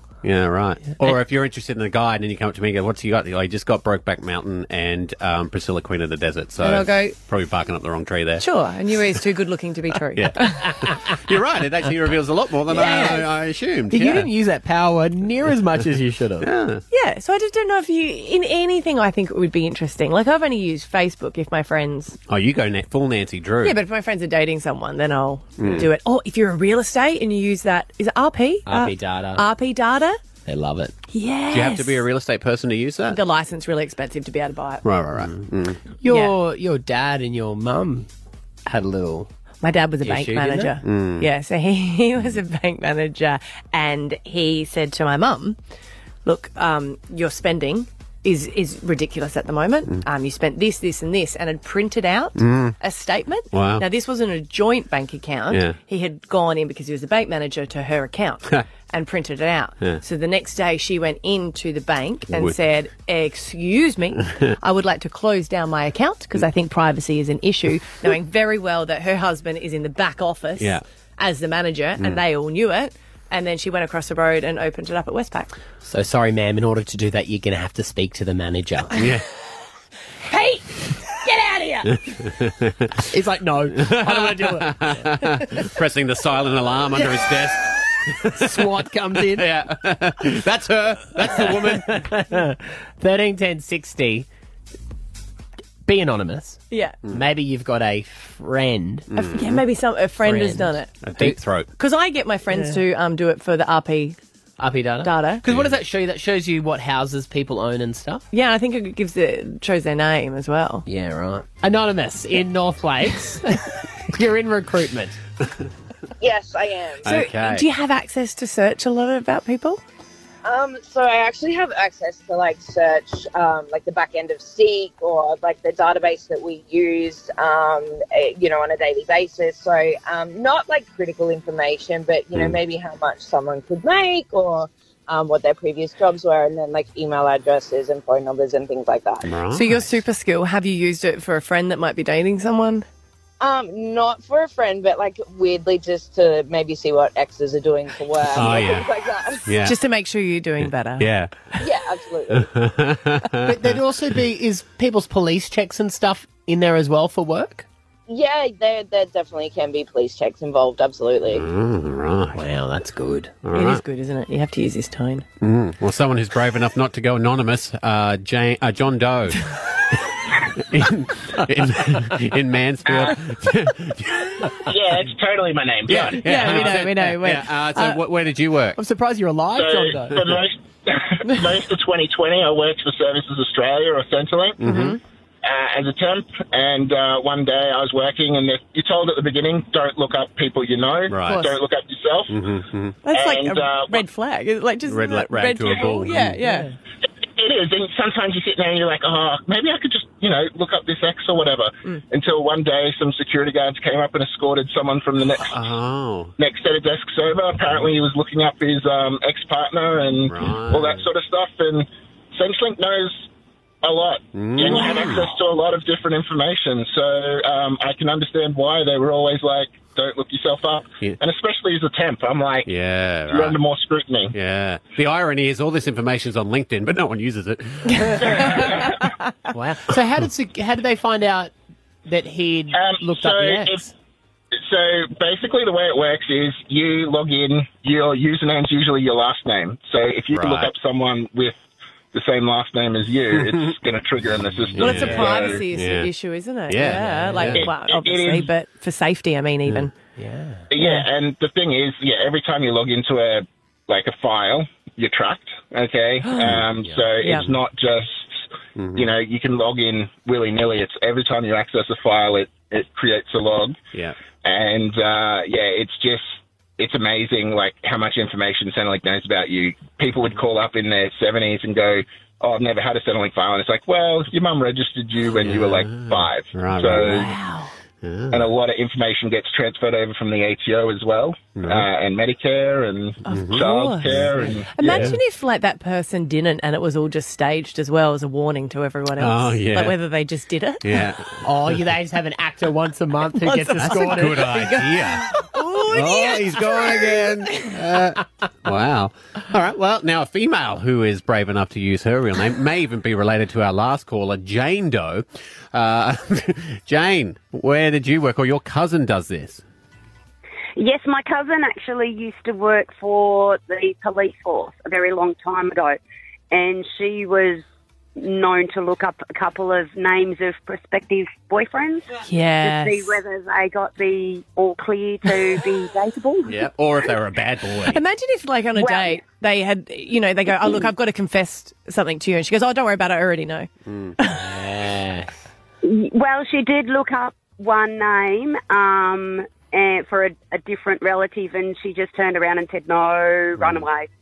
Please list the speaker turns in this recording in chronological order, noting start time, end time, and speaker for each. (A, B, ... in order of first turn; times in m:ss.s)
0:00.2-0:08.4 A
0:06.6-0:07.1 B
0:08.4-0:10.6 B
0:10.1-0:14.3 A
0:12.7-0:13.3 C
0:13.9-0:16.5 C
0:16.4-0:16.8 A
0:16.9-0:22.2 B
0:22.3-0:23.8 A
0:23.6-0:30.2 B
0:25.6-0:25.9 A
0:28.6-0:29.4 C
0:30.4-0:30.9 C
0:31.1-0:32.0 B
0:31.5-0:33.2 A
0:33.1-0:34.8 B
0:34.8-0:35.9 A
0:36.0-0:38.1 C
0:36.0-0:36.4 B
0:38.6-0:39.3 C
0:39.6-0:45.6 B
0:40.0-0:40.7 C
0:40.8-0:41.3 A
0:46.2-1:15.5 B
0:52.4-0:52.7 A
0:53.5-0:53.8 A
0:55.5-0:55.8 A
1:02.3-1:02.6 A
1:10.6-1:10.8 A
1:15.8-1:19.0 C
1:18.9-1:19.2 A
1:20.3-1:20.6 B
1:21.2-1:21.9 B
1:21.9-1:23.0 A
1:23.1-1:25.0 C
1:23.7-1:28.6 A
1:28.2-1:29.5 C
1:29.3-1:32.0 A
1:31.2-1:34.3 C
1:35.8-1:39.1 C
1:36.7-1:37.0 B
1:39.1-1:39.5 A
1:39.1-1:44.2 B
1:40.2-1:41.4 C
1:41.0-1:41.7 A
1:42.5-1:42.8 C
1:44.6-1:48.2 C
1:45.0-1:45.4 B
1:45.4-1:45.8 A
1:48.3-1:50.8 B
1:50.8-1:55.2 C
1:56.2-1:57.1 D
1:57.0-1:57.7 A
1:57.0-1:59.8 B
2:00.4-2:19.3 D
2:19.2-2:20.0 A
2:19.5-2:22.8 B
2:23.4-2:29.5 D
2:28.3-2:28.9 A
2:29.4-2:29.8 A
2:29.6-2:31.1 B
2:31.0-2:31.3 A
2:31.6-2:32.5 D
2:32.3-2:33.8 A
2:33.4-2:37.6 C
2:38.1-2:41.4 D
2:41.3-2:42.4 A
2:42.3-2:43.4 C
2:43.4-2:43.8 A
2:43.5-2:45.2 B
2:45.4-2:54.7 A
2:52.9-2:53.2 E
2:54.6-2:56.7 E
2:55.8-2:58.8 A
2:56.1-2:58.0 B
2:58.8-3:00.2 B
2:58.8-3:00.2 C
2:59.5-3:04.6 E
3:04.6-3:05.0 A
3:04.6-3:05.0 B
3:05.4-3:12.4 E
3:11.1-3:11.4 A
3:11.2-3:11.5 B
3:12.3-3:13.0 A
3:13.0-3:16.7 B
3:13.1-3:14.0 E
3:14.9-3:16.4 A
3:16.4-3:16.7 C
3:17.2-3:25.6 E
3:25.4-3:26.3 A
3:26.4-3:33.3 E
3:30.2-3:31.1 A
3:33.8-3:42.7 E
3:34.3-3:35.3 A
3:42.6-3:43.6 A
3:43.3-3:44.3 E
3:44.3-3:48.9 A
3:48.6-3:48.9 E
3:49.5-3:51.5 C
3:52.0-3:53.9 C
3:52.7-3:53.8 E
3:54.5-4:01.6 E
4:00.3-4:00.7 A
4:02.1-4:05.6 E
4:03.3-4:03.8 A
4:04.4-4:06.1 A
4:04.8-4:09.9 B
4:06.7-4:07.7 A
4:06.8-4:07.4 C
4:07.5-4:08.5 E
4:10.2-4:10.7 C
4:10.7-4:23.8 E
4:10.8-4:11.0 B
4:16.2-4:16.5 B
4:16.4-4:17.5 A
4:17.2-4:17.5 B
4:18.8-4:19.1 A
4:24.4-4:37.3 E
4:35.4-4:37.3 A
4:36.9-4:37.7 B
4:38.0-4:38.5 A
4:38.3-4:45.1 E
4:41.6-4:41.9 A
4:43.2-4:45.2 A
4:43.2-4:44.1 B
4:44.7-4:51.0 B
4:49.2-4:50.0 A
4:50.8-4:51.4 A
4:51.4-4:54.8 C
4:53.4-4:57.7 B
4:53.8-5:09.6 A
5:10.8-5:16.0 F
5:16.5-5:17.6 F
5:18.2-5:22.1 F
5:22.2-5:23.2 B
5:22.6-5:26.6 F
5:26.4-5:28.0 A
5:27.9-5:34.4 B
5:28.8-5:29.2 F
5:33.8-5:34.2 A
5:34.2-5:35.3 C
5:35.8-5:44.1 F
5:43.6-5:43.8 A